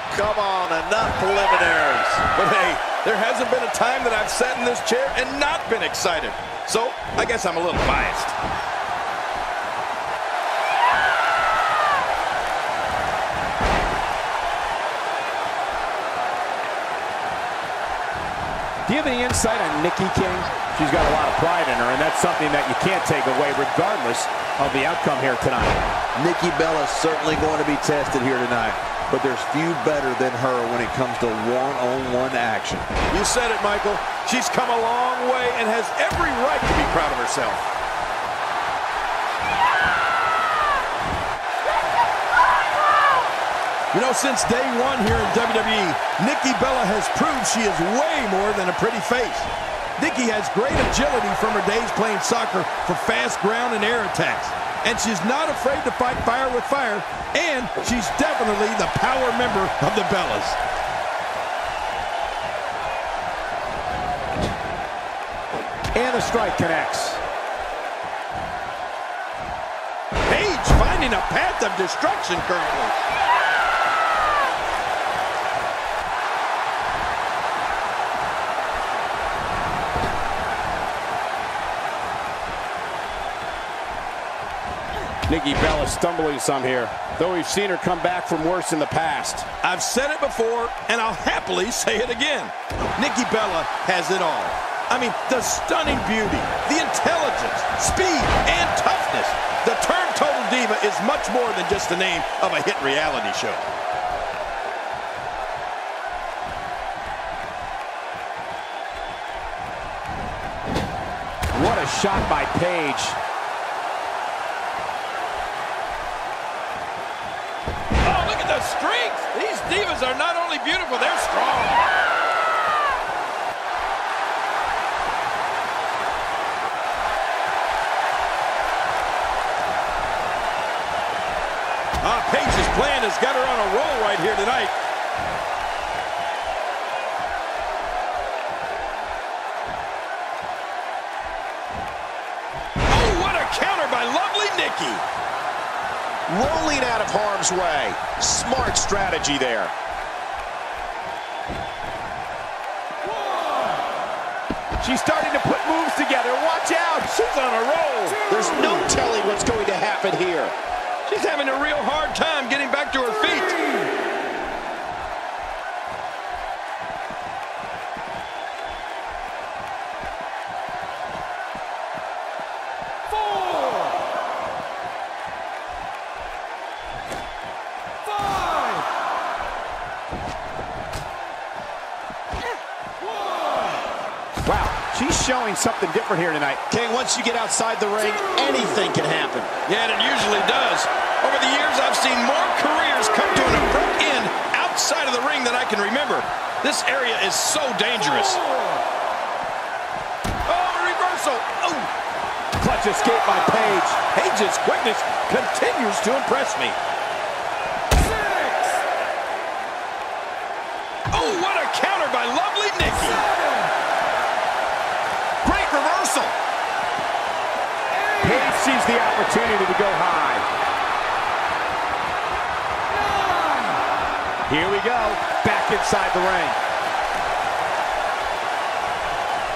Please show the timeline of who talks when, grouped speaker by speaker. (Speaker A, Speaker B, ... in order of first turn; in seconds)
Speaker A: 0.1-2.2, 26.1-32.9
Speaker B: 2.3-8.3, 33.1-37.7, 43.9-60.6, 70.2-72.9, 89.6-103.7, 118.0-121.8, 132.0-134.7, 142.9-145.0, 157.1-158.2, 161.1-163.7, 189.7-198.4, 200.4-201.9, 204.1-206.8, 211.1-213.3
Speaker C: 18.9-25.8, 65.9-67.2, 85.3-89.5, 111.5-113.2, 154.8-157.1, 158.3-159.4, 184.4-189.4, 202.6-204.0, 218.2-220.4, 224.5-226.6
Speaker D: 146.3-149.7, 158.3-160.5, 188.3-189.0, 215.4-216.3